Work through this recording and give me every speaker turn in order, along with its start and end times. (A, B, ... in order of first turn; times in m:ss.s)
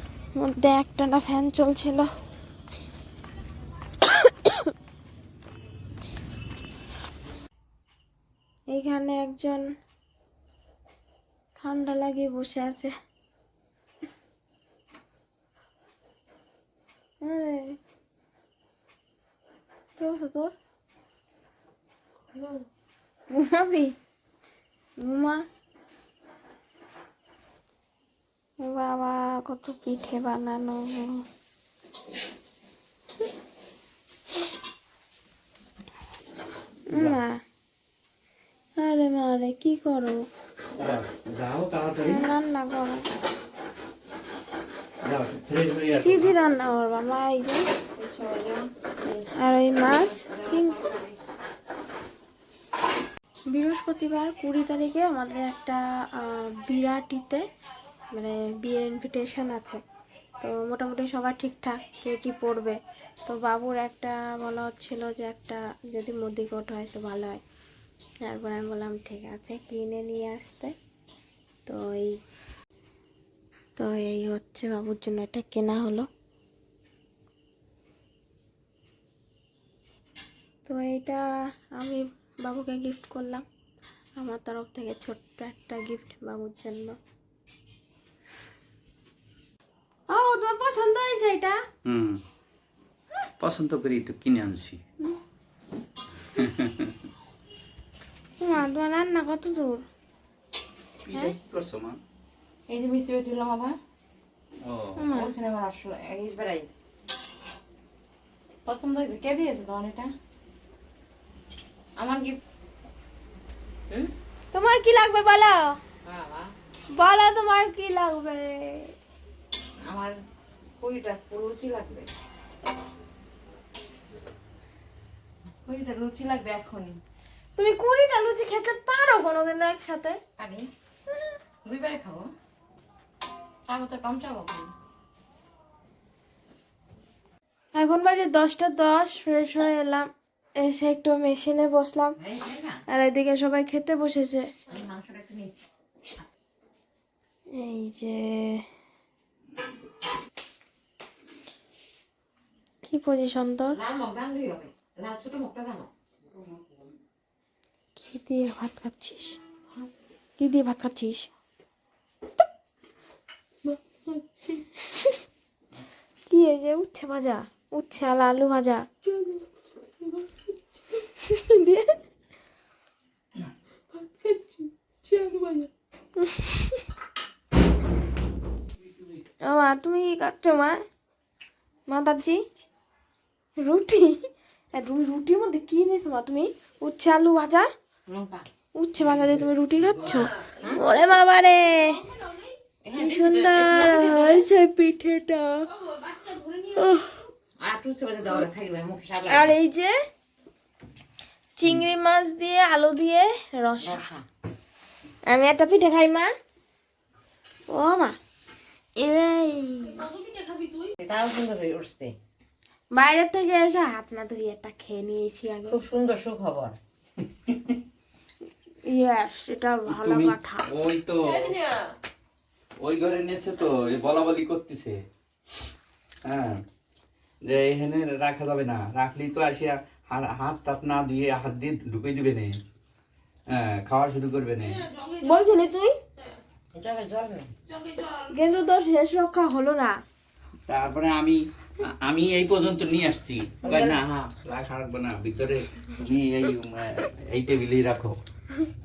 0:00.4-0:02.1 A
0:04.0-0:04.7 A
0:08.7-0:09.6 A
0:11.6-0:12.9 A
0:17.2-0:17.8 A
0:20.0-0:20.5 A
0:23.3-0:24.0 A
0:25.0-0:25.4 A
0:28.6-0:31.2 A
0:36.9-0:37.4 A
0:36.9-0:37.2 B
0:38.8-0:40.2 A
0:40.8-0:42.3 B
0:42.0-0:43.0 A
0:45.0-0:46.3 B
0:46.0-0:47.6 A
0:48.0-0:51.2 C
0:49.3-0:50.8 A
0:53.5-0:57.4 A
0:58.1-0:59.8 A
1:00.4-1:07.4 A
1:08.2-1:10.7 A
1:11.6-1:12.2 A
1:13.8-1:16.1 A
1:20.6-1:21.2 A
1:21.8-1:23.4 A
1:24.2-1:27.0 A
1:30.1-1:31.6 A
1:31.8-1:32.2 B
1:33.4-1:34.8 B
1:36.4-1:36.9 B
1:38.4-1:39.8 A
1:41.0-1:42.0 B
1:42.7-1:43.7 C
1:44.6-1:45.0 B
1:45.0-1:45.3 A
1:45.1-1:46.7 C
1:48.6-1:50.1 C
1:52.0-1:52.3 C
1:54.5-1:55.6 A
1:56.0-1:56.5 C
1:56.9-1:58.9 A
1:59.9-2:00.1 C
2:00.8-2:02.1 C
2:05.6-2:07.0 C
2:07.6-2:10.2 A
2:10.4-2:10.7 C
2:11.6-2:12.3 C
2:13.7-2:14.7 C
2:17.7-2:20.1 A
2:20.6-2:22.2 A
2:22.2-2:22.8 C
2:22.9-2:24.5 A
2:24.7-2:25.6 C
2:27.5-2:28.6 A
2:32.8-2:33.8 A
2:33.7-2:35.9 C
2:36.3-2:36.9 B
2:38.0-2:39.4 A
2:40.4-2:41.3 A
2:43.6-2:44.1 A
2:44.7-2:45.2 A
2:46.3-2:49.4 A
2:51.0-2:51.9 A
2:53.9-2:56.8 A
2:59.5-3:00.8 A
3:01.9-3:02.4 A
3:03.6-3:04.2 A
3:04.7-3:07.7 A
3:08.1-3:08.5 C
3:08.7-3:12.0 A
3:12.8-3:14.4 C
3:12.9-3:15.7 A
3:15.9-3:16.6 C
3:16.7-3:17.2 A
3:17.6-3:19.5 C
3:19.3-3:19.9 A
3:21.6-3:24.0 A
3:23.8-3:24.2 C
3:25.2-3:26.3 A
3:27.7-3:28.2 A
3:29.0-3:30.1 A
3:30.2-3:32.1 C
3:32.9-3:35.8 A
3:35.7-3:36.8 C
3:38.8-3:40.7 A
3:39.9-3:41.6 B
3:42.8-3:45.0 B
3:46.2-3:46.6 B
3:47.4-3:52.6 B
3:53.5-3:54.8 B
3:55.2-3:56.0 A
3:56.7-3:57.5 C
3:58.1-4:00.0 A
4:00.7-4:08.2 B
4:03.6-4:04.0 C